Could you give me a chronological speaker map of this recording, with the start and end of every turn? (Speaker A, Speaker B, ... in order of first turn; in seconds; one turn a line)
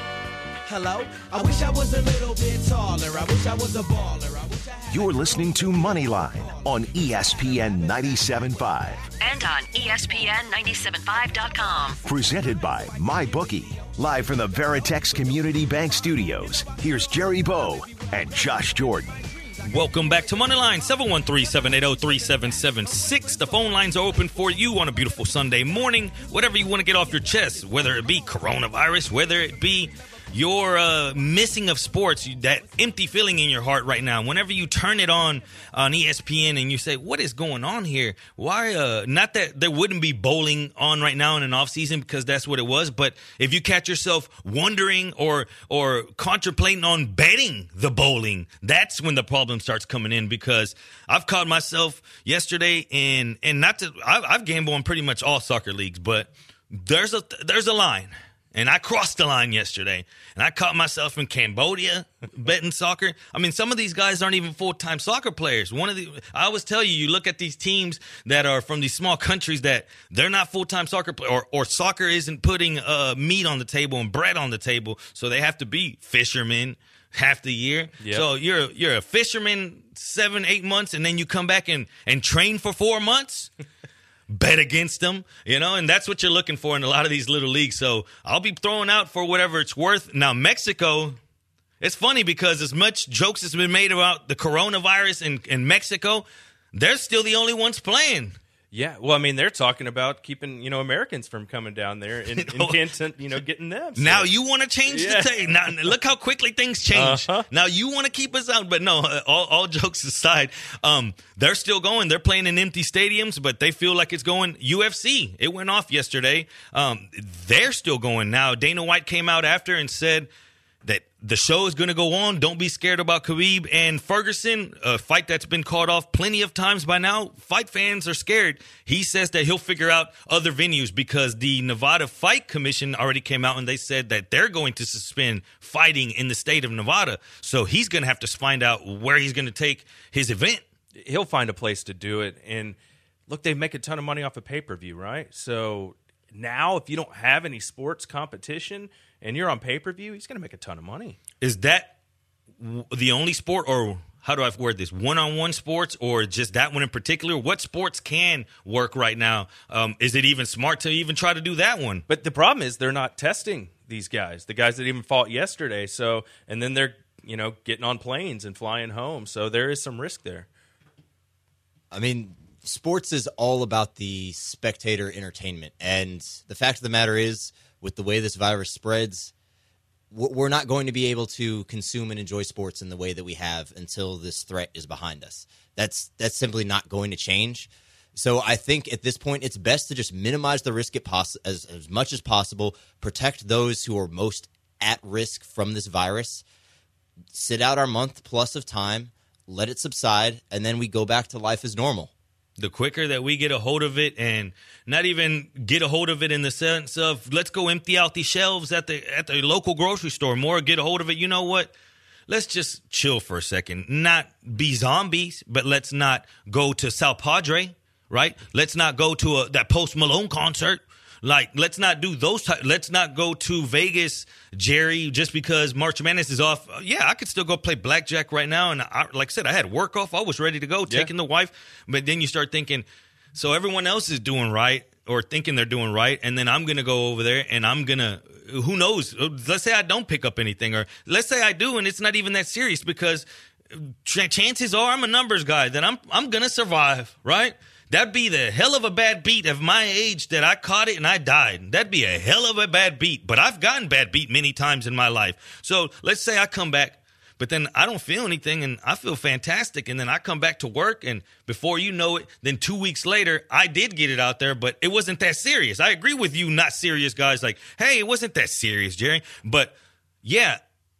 Speaker A: 0.7-5.0
Speaker B: 4.9-9.1
Speaker C: 9.2-12.0
Speaker B: 12.0-19.2
Speaker D: 19.6-83.5
Speaker E: 78.0-78.2
Speaker D: 84.3-91.2
Speaker D: 91.8-98.4
Speaker E: 98.7-104.3
Speaker D: 102.4-102.8
Speaker D: 104.0-120.3
Speaker E: 104.9-105.3
Speaker E: 106.9-107.5
Speaker D: 120.8-140.6
Speaker E: 140.9-142.8
Speaker E: 143.3-151.2
Speaker D: 151.4-151.9
Speaker D: 152.6-162.0
Speaker E: 162.1-170.5
Speaker F: 171.9-179.3
Speaker F: 180.1-196.4
Speaker F: 197.3-202.1
Speaker D: 202.6-211.7
Speaker D: 212.3-270.6